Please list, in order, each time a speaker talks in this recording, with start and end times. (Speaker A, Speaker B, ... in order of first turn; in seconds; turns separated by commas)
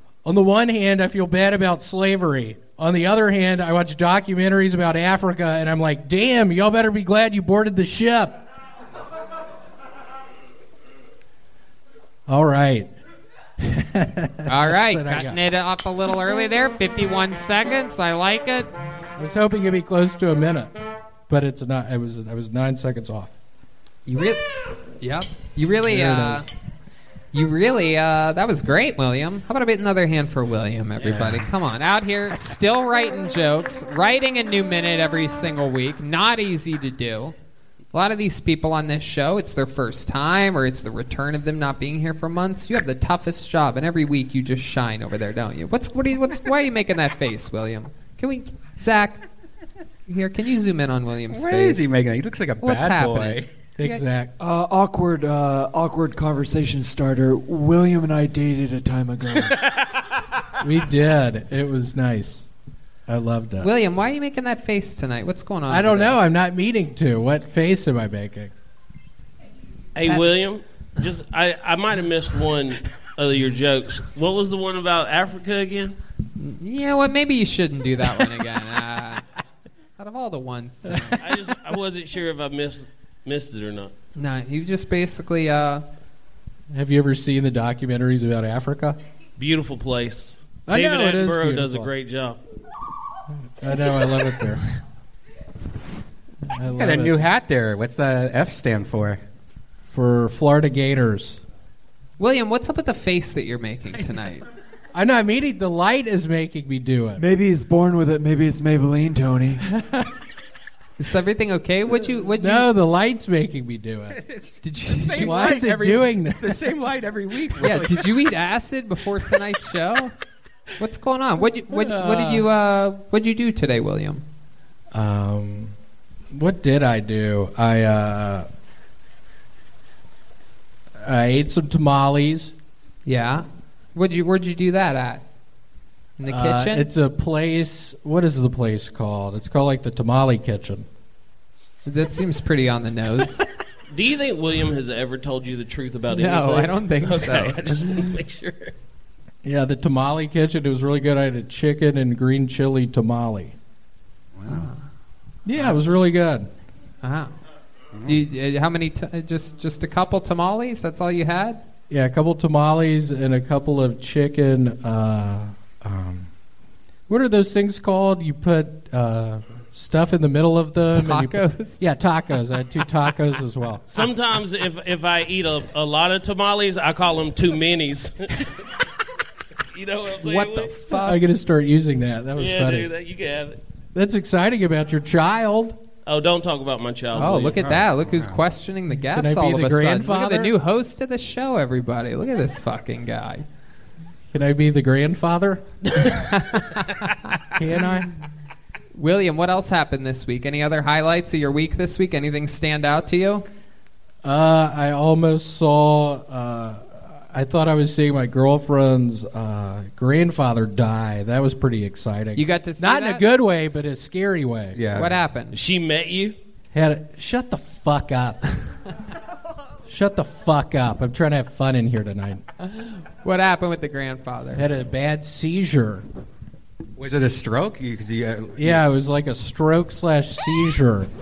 Speaker A: 0.2-8.4, Speaker A: 12.3-12.9, Speaker A: 13.6-15.4, Speaker B: 14.5-18.7, Speaker A: 19.2-20.7, Speaker A: 21.3-23.3, Speaker B: 24.1-24.4, Speaker B: 25.0-26.5, Speaker A: 25.9-26.4, Speaker B: 27.3-37.4, Speaker C: 31.0-31.5, Speaker B: 37.9-49.3, Speaker B: 50.1-51.9, Speaker C: 51.3-53.5, Speaker B: 52.6-54.0, Speaker A: 53.8-54.3, Speaker D: 54.4-59.6, Speaker A: 60.6-62.5, Speaker A: 63.1-63.7, Speaker B: 63.6-66.2, Speaker A: 65.7-68.5, Speaker E: 70.0-76.0, Speaker B: 76.4-79.3, Speaker B: 80.0-81.2, Speaker E: 81.2-83.9, Speaker B: 84.2-85.8, Speaker A: 86.7-89.0, Speaker E: 89.4-92.4, Speaker A: 90.7-91.9, Speaker A: 93.6-94.6, Speaker A: 96.5-97.2, Speaker C: 96.8-99.2, Speaker A: 99.9-101.4, Speaker B: 102.2-104.5, Speaker A: 104.9-107.2, Speaker D: 107.2-109.6, Speaker A: 109.8-110.1, Speaker B: 111.0-112.7, Speaker A: 112.4-114.2, Speaker C: 114.1-118.2, Speaker B: 114.6-115.7, Speaker A: 115.1-116.8, Speaker B: 117.6-120.1, Speaker B: 120.8-124.2, Speaker A: 121.7-122.5, Speaker A: 124.9-125.7, Speaker A: 126.3-128.5, Speaker A: 131.0-132.6, Speaker B: 133.1-135.2, Speaker B: 136.2-136.9, Speaker A: 136.3-140.9, Speaker B: 141.9-143.4, Speaker E: 143.9-148.7, Speaker B: 146.1-148.2, Speaker A: 149.4-153.6, Speaker C: 154.4-154.7, Speaker B: 154.5-154.8, Speaker A: 155.5-156.5, Speaker B: 155.6-155.8, Speaker B: 157.0-157.3, Speaker B: 158.1-161.6, Speaker A: 161.9-166.3, Speaker A: 167.1-173.8, Speaker B: 170.9-171.9, Speaker E: 173.9-178.5, Speaker E: 179.7-180.7, Speaker B: 180.2-181.2, Speaker A: 181.0-182.9, Speaker E: 182.4-183.6, Speaker A: 183.9-185.8, Speaker E: 186.1-187.7, Speaker B: 187.2-193.4, Speaker C: 187.6-188.4, Speaker A: 189.2-190.5, Speaker A: 194.3-195.6, Speaker B: 196.0-197.2, Speaker A: 197.5-198.1, Speaker B: 198.9-203.5, Speaker A: 204.2-214.8, Speaker B: 212.3-213.3, Speaker C: 214.8-215.2, Speaker B: 214.9-215.6, Speaker E: 215.5-216.4, Speaker A: 216.7-218.6, Speaker A: 219.9-222.4, Speaker B: 222.6-224.7, Speaker A: 224.6-226.1, Speaker C: 227.0-228.8, Speaker A: 228.6-231.1